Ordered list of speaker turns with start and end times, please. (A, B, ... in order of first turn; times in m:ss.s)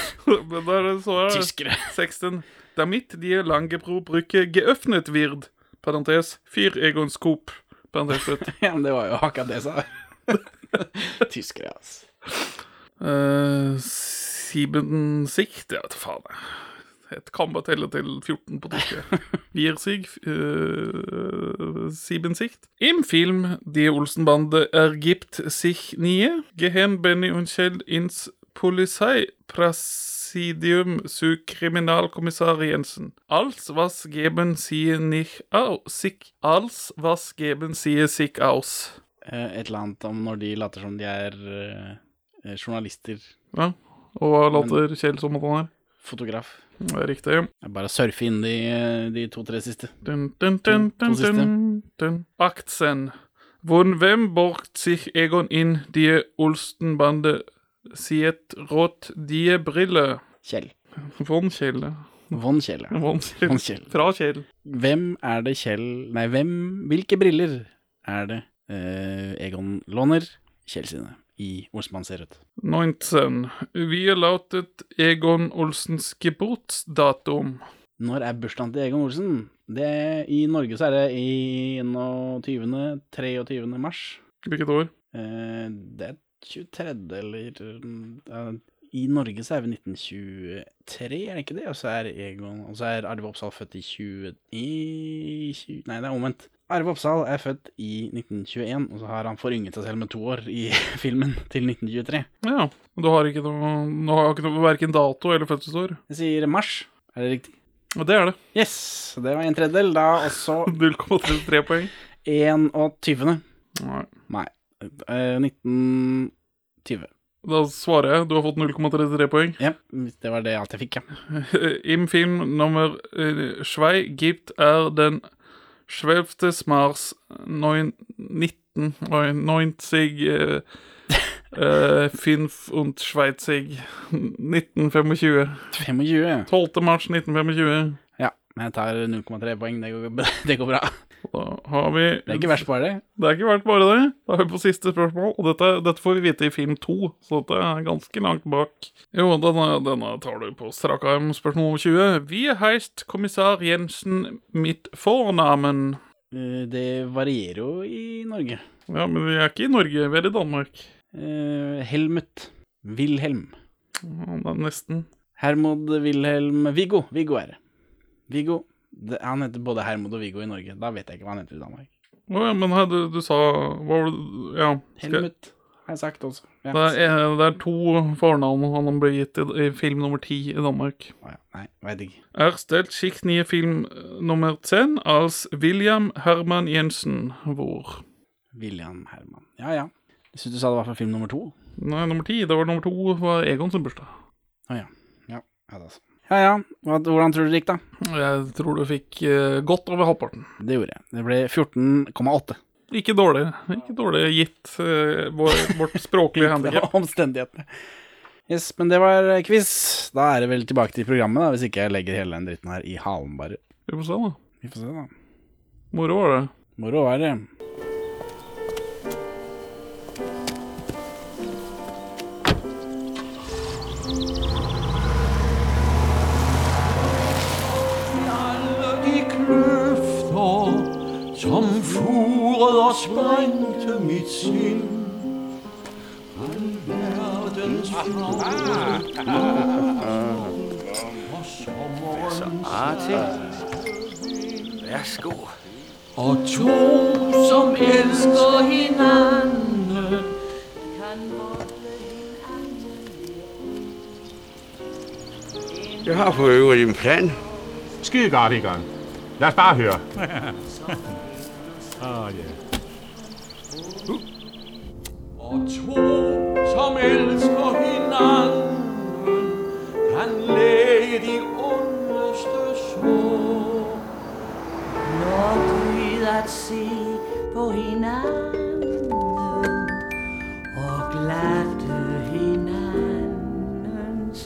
0:00.2-0:08.5 A
0:01.2-0:01.9 B
0:08.2-0:12.1 B
0:13.0-0:39.0 A
0:39.2-0:43.3 B
0:43.5-0:45.7 A
0:44.5-0:44.8 B
0:46.0-0:46.6 B
0:46.8-0:47.5 A
0:47.6-0:49.9 B
0:50.0-1:00.2 A
0:50.7-0:51.5 B
1:00.4-1:00.7 B
1:01.0-1:02.4 A
1:02.3-1:03.9 B
1:02.9-1:04.4 A
1:04.6-1:12.4 B
1:12.6-1:17.6 A
1:18.0-1:24.2 B
1:24.4-1:24.9 A
1:25.1-1:42.3 B
1:42.4-1:46.0 A
1:46.1-1:47.5 B
1:48.0-1:48.4 A
1:48.5-1:50.7 B
1:50.6-1:51.9 A
1:52.2-1:53.4 B
1:53.8-1:54.1 A
1:54.3-1:56.3 B
1:56.8-1:57.1 B
1:57.4-1:59.6 A
1:59.6-2:01.1 B
2:01.3-2:05.2 A
2:05.9-2:10.6 A
2:11.5-2:15.7 A
2:15.7-2:16.5 B
2:16.5-2:18.0 A
2:18.2-2:21.0 B
2:21.2-2:22.7 A
2:22.3-2:23.0 B
2:23.2-2:36.0 A
2:36.3-2:38.6 B
2:38.9-2:40.9 A
2:41.1-2:43.5 B
2:44.0-2:45.1 A
2:45.4-2:47.6 B
2:48.3-2:51.9 B
2:52.3-2:55.3 A
2:55.0-2:57.1 B
2:56.7-3:01.1 A
3:01.2-3:02.2 B
3:02.3-3:08.0 A
3:08.5-3:11.5 B
3:11.8-3:14.1 A
3:14.7-3:17.8 B
3:18.0-3:20.5 A
3:20.6-3:22.6 B
3:22.9-3:26.9 A
3:25.5-3:27.7 B
3:28.5-3:33.6 B
3:33.9-3:34.4 A
3:34.6-3:35.1 B
3:35.9-3:36.5 A
3:36.8-3:37.5 B
3:46.9-3:55.3 C
3:56.3-4:05.0 C
3:58.6-3:59.7 D
4:02.2-4:03.2 D
4:04.8-4:05.5 D
4:06.2-4:10.3 C
4:11.0-4:13.8 C
4:16.0-4:17.4 D
4:18.0-4:20.6 E
4:22.0-4:22.6 E
4:25.4-4:34.0 C
4:35.0-4:40.0 C
4:40.7-4:44.3 C